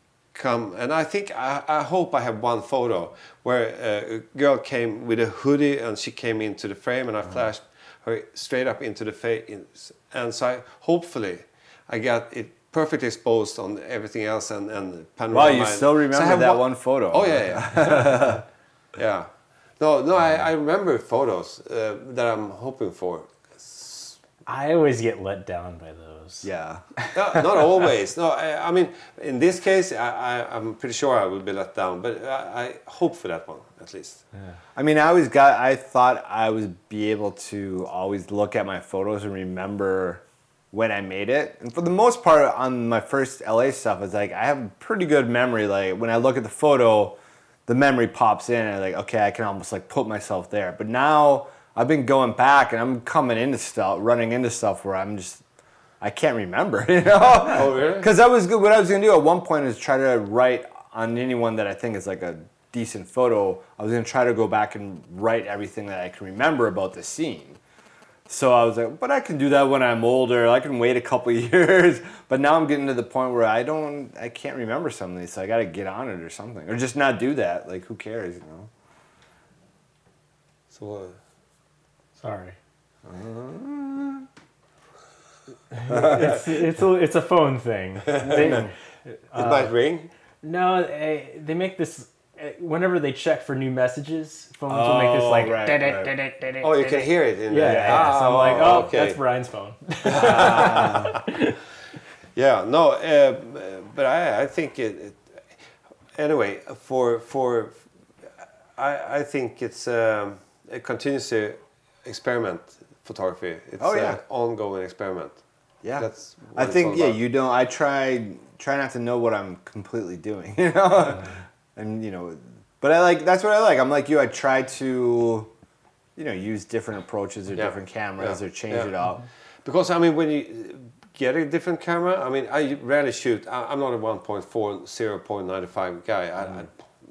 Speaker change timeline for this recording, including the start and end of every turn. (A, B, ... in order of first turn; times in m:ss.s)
0:00.3-0:18.4 A
0:15.3-0:18.4 B
0:19.0-0:19.3 A
0:19.8-0:24.2 A
0:24.4-0:26.5 C
0:26.4-0:26.8 B
0:27.1-0:34.2 A
0:34.8-0:40.2 B
0:40.7-0:55.4 B
0:56.0-1:07.6 B
0:57.2-0:58.1 A
1:08.3-1:18.7 B
1:20.7-1:21.2 A
1:22.2-1:22.6 C
1:23.0-1:24.2 B
1:25.7-1:29.7 C
1:25.9-1:26.4 B
1:28.1-1:28.6 A
1:28.3-1:28.7 B
1:29.3-1:30.1 A
1:30.4-1:41.5 C
1:34.7-1:36.1 B
1:36.6-1:39.2 A
1:37.6-1:38.9 B
1:40.1-1:41.2 B
1:40.1-1:41.2 A
1:42.4-1:45.2 A
1:46.2-1:47.8 A
1:48.8-1:55.4 A
1:53.8-1:54.2 B
1:55.8-2:05.5 B
1:56.0-1:57.2 A
2:06.2-2:09.2 B
2:07.5-2:08.9 A
2:09.6-2:16.7 A